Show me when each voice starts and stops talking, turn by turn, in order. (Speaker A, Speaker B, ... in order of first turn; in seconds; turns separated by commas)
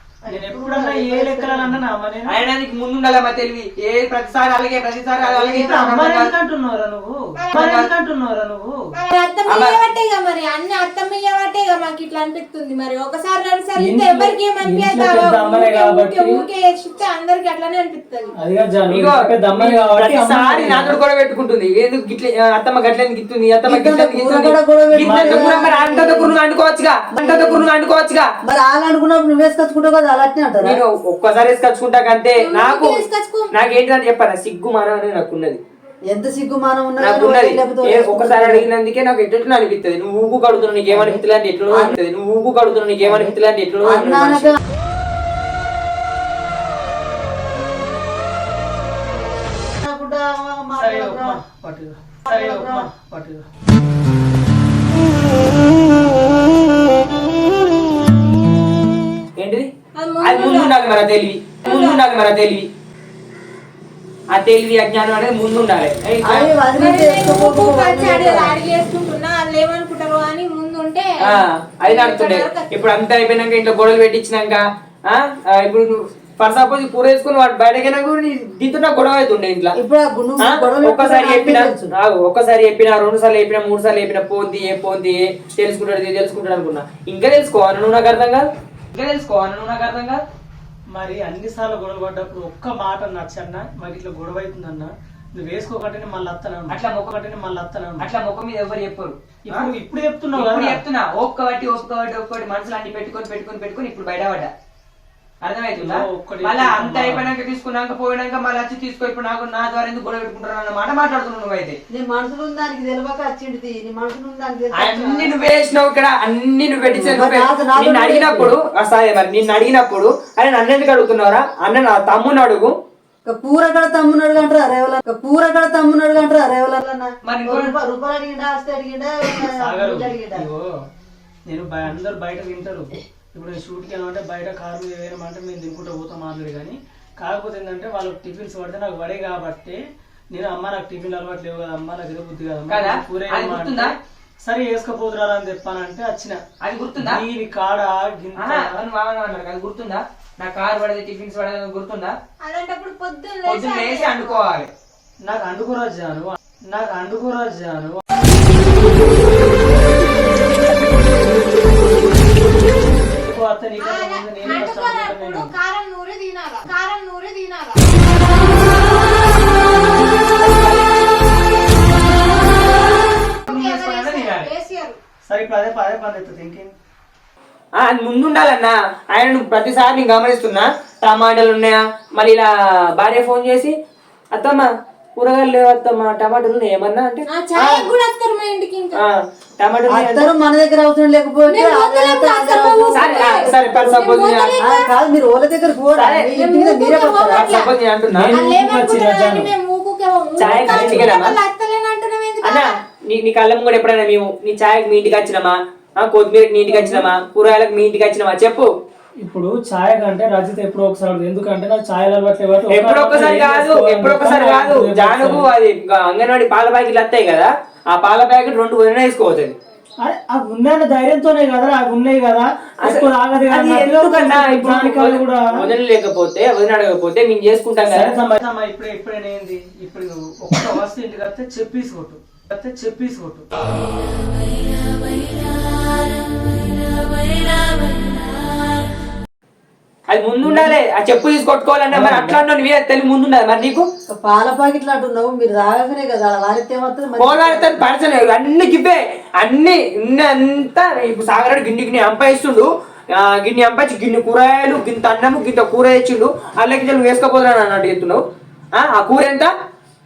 Speaker A: 0.2-1.8, Speaker B: 0.3-2.4, Speaker C: 2.2-6.3, Speaker B: 5.2-8.8, Speaker D: 7.4-7.7, Speaker C: 7.5-7.9, Speaker D: 8.9-18.3, Speaker C: 9.5-9.8, Speaker B: 13.8-16.3, Speaker B: 18.4-20.9, Speaker C: 18.9-28.3, Speaker A: 23.6-26.4, Speaker B: 25.0-25.7, Speaker A: 27.1-27.7, Speaker A: 28.4-30.8, Speaker C: 30.6-33.0, Speaker D: 32.4-33.5, Speaker C: 33.5-35.6, Speaker A: 36.1-38.7, Speaker C: 37.0-44.6, Speaker A: 40.9-42.0, Speaker A: 43.0-44.6, Speaker A: 49.8-51.4, Speaker B: 50.8-53.4, Speaker A: 52.2-52.9, Speaker C: 59.4-59.7, Speaker D: 60.0-60.7, Speaker C: 60.2-62.7, Speaker D: 61.6-62.0, Speaker C: 64.3-66.5, Speaker A: 66.2-68.5, Speaker D: 66.8-73.0, Speaker C: 71.2-79.8, Speaker A: 79.8-81.9, Speaker C: 80.4-90.2, Speaker B: 90.9-98.1, Speaker C: 96.7-97.2, Speaker C: 98.0-99.7, Speaker B: 99.5-100.8, Speaker C: 100.3-104.5, Speaker C: 105.4-111.8, Speaker B: 105.8-107.3, Speaker A: 111.9-115.3, Speaker C: 114.7-122.7, Speaker A: 116.8-118.5, Speaker A: 123.2-130.5, Speaker C: 127.2-127.7, Speaker B: 129.6-130.8, Speaker B: 131.4-139.8, Speaker B: 140.3-146.4, Speaker C: 142.7-143.9, Speaker C: 146.6-147.2, Speaker B: 147.0-148.8, Speaker C: 148.3-152.2, Speaker D: 152.4-154.5, Speaker C: 153.4-154.7, Speaker B: 155.2-158.0, Speaker B: 163.1-165.5, Speaker D: 163.8-168.1, Speaker D: 170.4-171.4, Speaker D: 172.6-175.0, Speaker C: 173.5-174.5, Speaker B: 175.3-176.7, Speaker C: 177.7-183.7, Speaker C: 184.3-187.2, Speaker D: 187.2-189.0, Speaker C: 188.9-190.3, Speaker A: 189.9-197.6, Speaker D: 191.5-194.9, Speaker C: 192.9-194.6, Speaker C: 196.0-196.3, Speaker D: 196.3-197.7, Speaker C: 197.3-198.3, Speaker B: 198.1-199.5, Speaker D: 198.3-202.6, Speaker C: 200.4-201.3, Speaker B: 200.4-201.1, Speaker C: 202.4-208.7, Speaker B: 206.7-207.1, Speaker B: 209.2-215.5, Speaker C: 212.7-219.6, Speaker B: 220.0-225.7, Speaker C: 222.8-228.1, Speaker B: 227.8-233.5, Speaker C: 240.1-243.8, Speaker B: 240.4-240.7, Speaker B: 241.9-242.4, Speaker A: 244.1-247.8, Speaker C: 247.2-258.2, Speaker C: 258.7-259.5